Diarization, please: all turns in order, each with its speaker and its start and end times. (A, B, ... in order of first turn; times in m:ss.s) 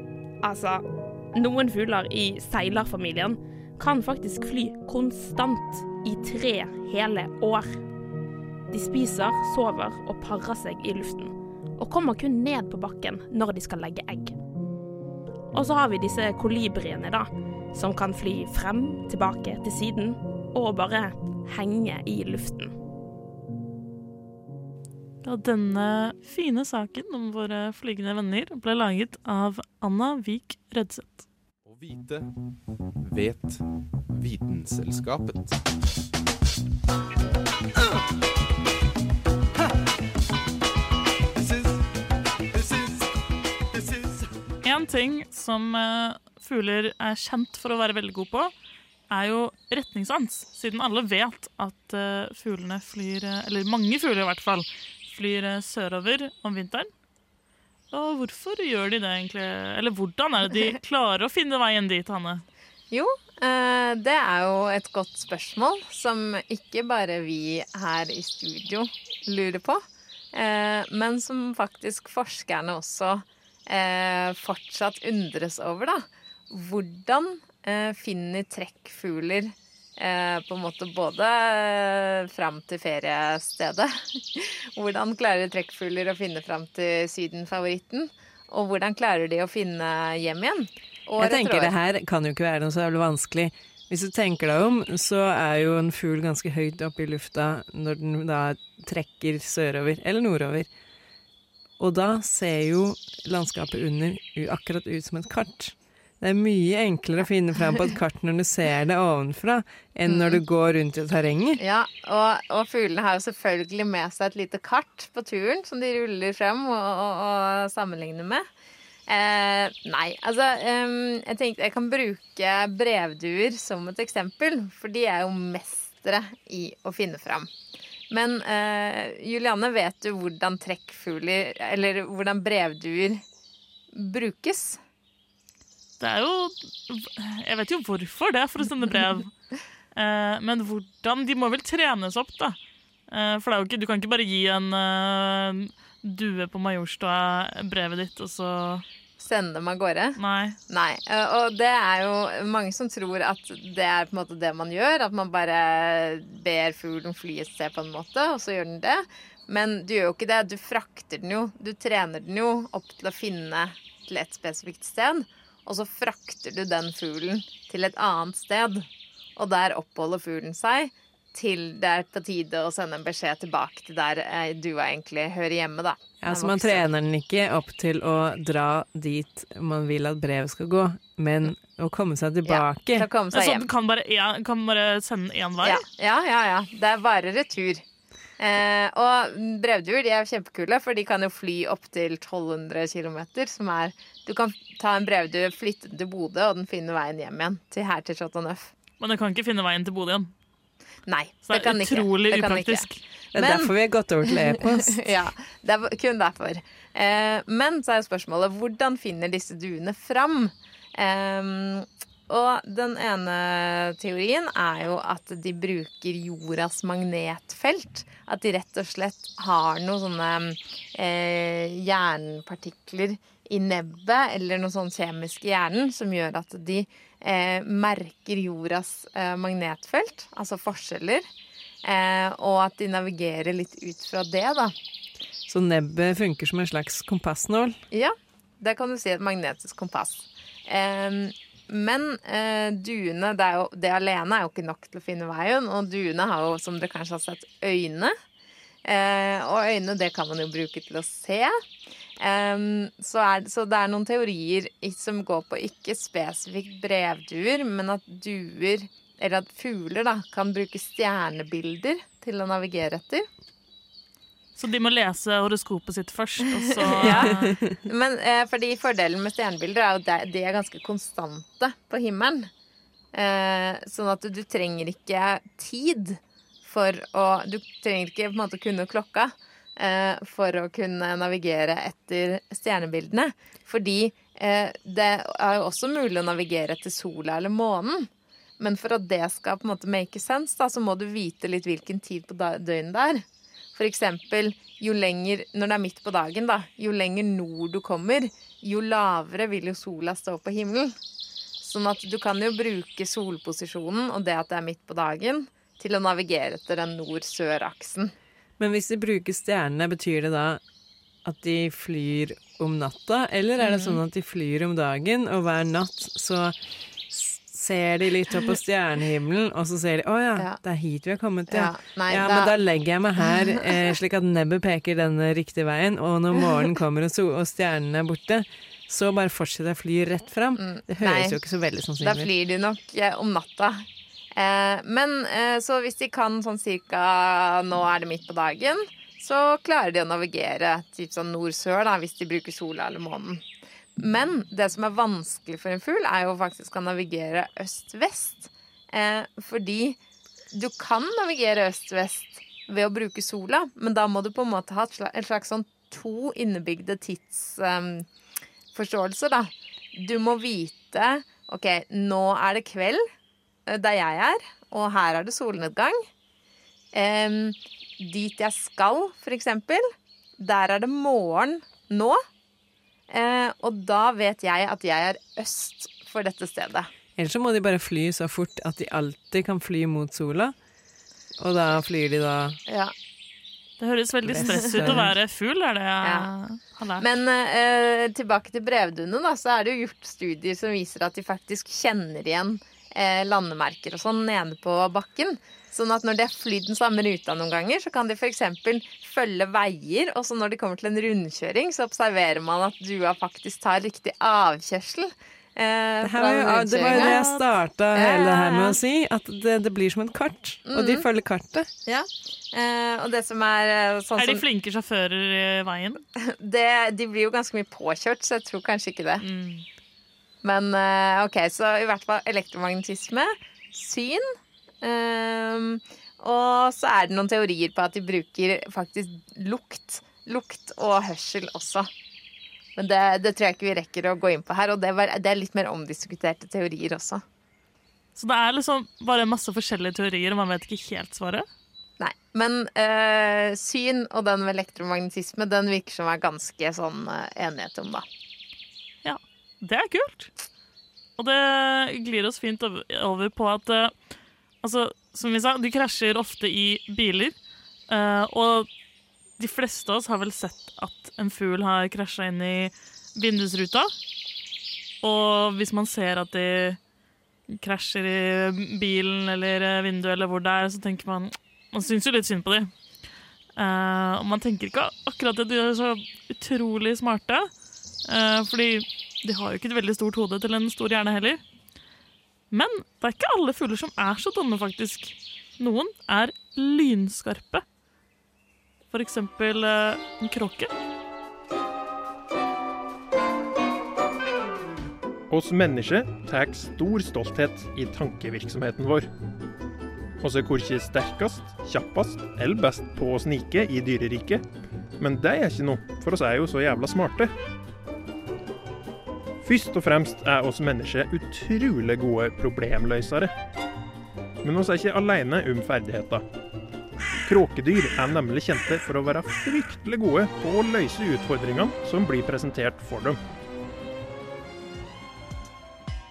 0:00.4-0:07.8 A
0:08.7-0:14.4 A
0:15.5-0:22.7 A
0:25.2-0:31.2 B
0:31.6-0:32.3 C
0:33.0-0:35.6 C
0:41.3-0:41.8 C
0:42.5-0:43.1 C
0:43.7-0:44.3 C
0:44.6-0:48.5 B
0:49.1-0:56.9 B
0:57.9-1:02.4 B
1:02.9-1:31.7 D
1:31.2-1:40.7 E
1:41.8-1:51.6 E
1:50.0-1:50.4 D
1:51.6-1:58.4 D
1:59.1-2:07.5 D
2:08.1-2:13.2 D
2:13.9-2:14.8 D
2:16.0-2:19.3 B
2:19.9-2:22.6 B
2:23.1-2:28.8 B
2:29.2-2:56.8 D
2:30.2-2:30.6 B
2:56.2-3:03.1 E
3:02.4-3:03.7 D
3:03.3-3:05.8 B
3:05.6-3:07.8 D
3:08.4-3:18.7 D
3:19.0-3:20.3 B
3:21.0-3:23.7 D
3:21.5-3:23.0 B
3:23.3-3:25.2 E
3:24.3-3:51.2 D
3:51.8-3:54.7 D
3:55.5-3:57.8 E
3:57.9-4:08.1 D
4:08.8-4:11.5 D
4:12.2-4:23.2 D
4:24.6-4:27.5 B
4:26.6-4:32.5 D
4:26.9-4:27.8 E
4:33.1-4:53.2 D
4:53.7-5:00.9 D
5:01.6-5:08.1 D
5:08.6-5:10.6 E
5:11.2-5:16.6 E
5:13.6-5:14.0 D
5:17.1-5:32.3 E
5:21.5-5:22.5 D
5:30.6-5:31.4 D
5:32.0-5:43.4 D
5:44.0-5:50.0 D
5:50.5-5:58.1 D
5:58.7-6:03.0 D
6:03.7-6:06.0 D
6:06.9-6:09.8 D
6:10.4-6:12.2 D
6:13.1-6:16.9 D
6:17.2-6:20.5 E
6:21.4-6:22.6 E
6:22.7-6:22.9 D
6:23.8-6:27.1 B
6:24.2-6:25.1 E
6:24.5-6:25.0 D
6:26.0-6:26.3 D
6:27.0-6:47.2 D
6:46.0-6:51.7 E
6:46.8-6:47.4 B
6:47.9-6:48.8 D
6:50.7-6:51.0 D
6:51.8-6:54.4 D
6:54.2-6:56.0 B
6:56.2-6:59.2 D
6:59.2-6:59.6 B
7:00.4-7:04.2 D
7:04.8-7:11.9 D
7:12.8-7:17.2 D
7:18.2-7:21.4 B
7:22.0-7:28.0 D
7:29.0-7:30.3 B
7:31.2-7:33.9 B
7:34.6-7:37.4 B
7:37.9-7:38.7 B
7:39.4-7:43.9 B
7:45.0-7:46.8 B
7:47.5-7:52.7 B
7:53.6-7:57.5 B
7:58.0-8:01.4 B
8:02.5-8:07.6 B
8:08.9-8:10.7 B
8:15.3-8:19.1 F
8:20.2-8:24.4 F
8:25.0-8:27.3 F
8:29.4-8:33.3 F
8:34.4-8:36.2 F
8:37.2-8:43.2 F